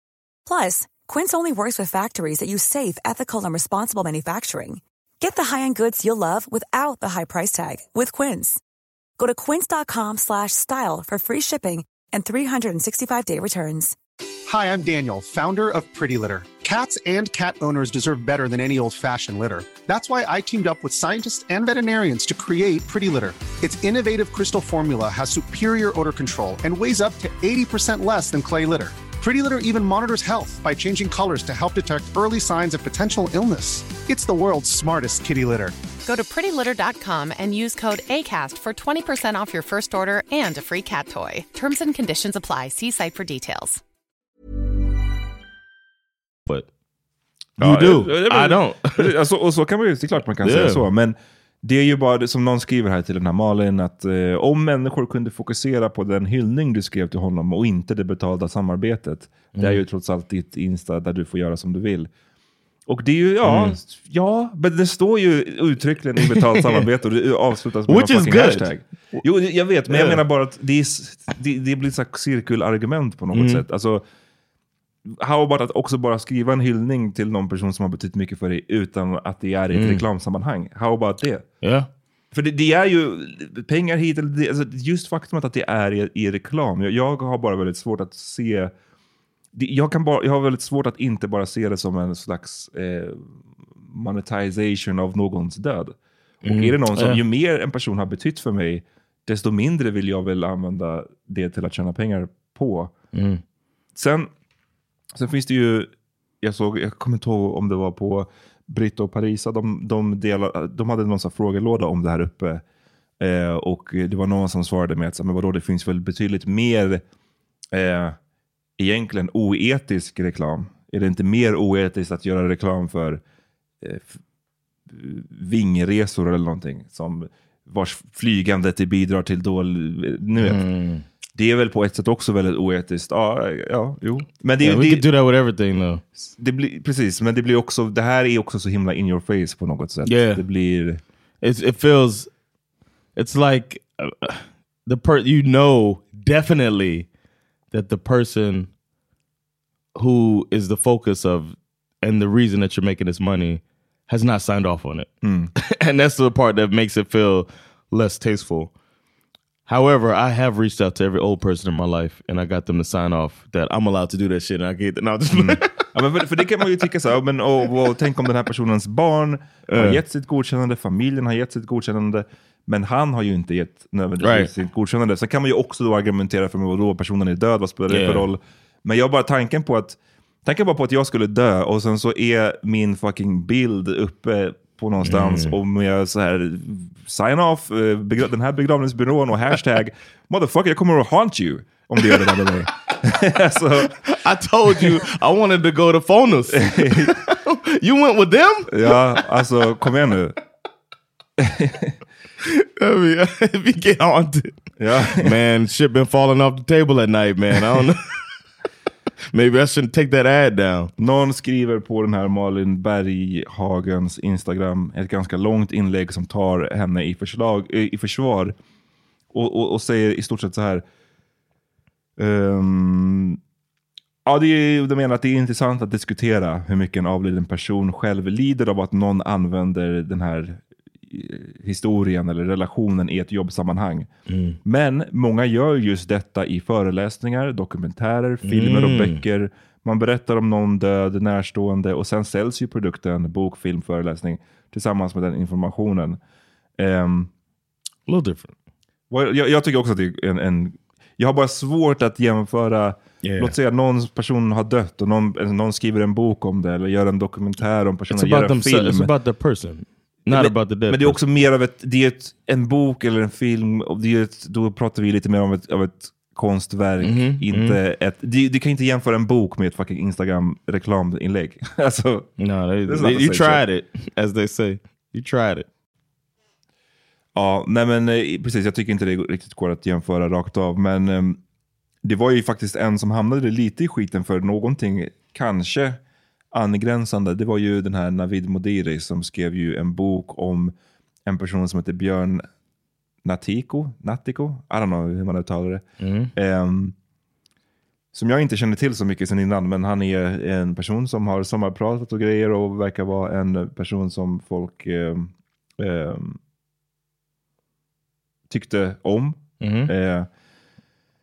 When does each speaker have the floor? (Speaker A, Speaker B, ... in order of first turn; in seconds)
Speaker A: 0.5-8.6, 9.2-13.9
Speaker B: 14.5-35.7
Speaker C: 36.0-43.8
Speaker D: 47.6-49.1, 50.4-50.9, 59.5-59.8, 63.4-63.8, 66.2-66.8, 67.9-69.2, 69.9-70.2, 73.3-73.6, 79.7-80.0, 81.6-81.9, 96.4-97.2, 103.1-103.4, 130.4-131.0, 134.6-136.0, 140.0-140.4, 141.4-142.3, 143.2-147.1, 147.7-148.7, 149.9-158.7, 159.7-165.9, 169.7-170.0, 174.2-174.5, 177.9-178.2, 185.0-185.6, 192.0-192.5, 194.0-199.2, 202.4-208.2, 209.3-210.9, 234.3-234.6, 238.4-239.2, 248.1-248.5, 253.2-253.5, 258.1-261.2, 267.0-267.8, 272.4-275.6, 296.0-296.3, 309.6-309.9
Speaker E: 47.6-62.1, 62.9-74.0, 75.2-81.5, 82.3-88.7, 89.5-93.3, 93.8-102.9, 103.9-104.3, 105.1-112.6, 113.2-117.0, 117.7-118.2, 118.8-123.2, 123.8-124.2, 124.9-130.6, 131.3-135.0, 136.2-141.0, 155.2-155.5, 165.3-193.9, 194.7-195.0, 196.5-197.1, 198.7-200.4, 201.4-201.9, 204.8-205.3, 211.0-218.5, 219.3-220.8, 222.2-223.4, 224.2-234.1, 234.6-246.2, 246.8-247.3, 249.1-259.1, 260.3-272.3, 272.9-273.6, 277.3-281.4, 282.0-286.0, 286.5-290.7, 291.2-292.4, 293.2-295.8, 296.3-296.9, 298.1-306.4, 308.5-310.3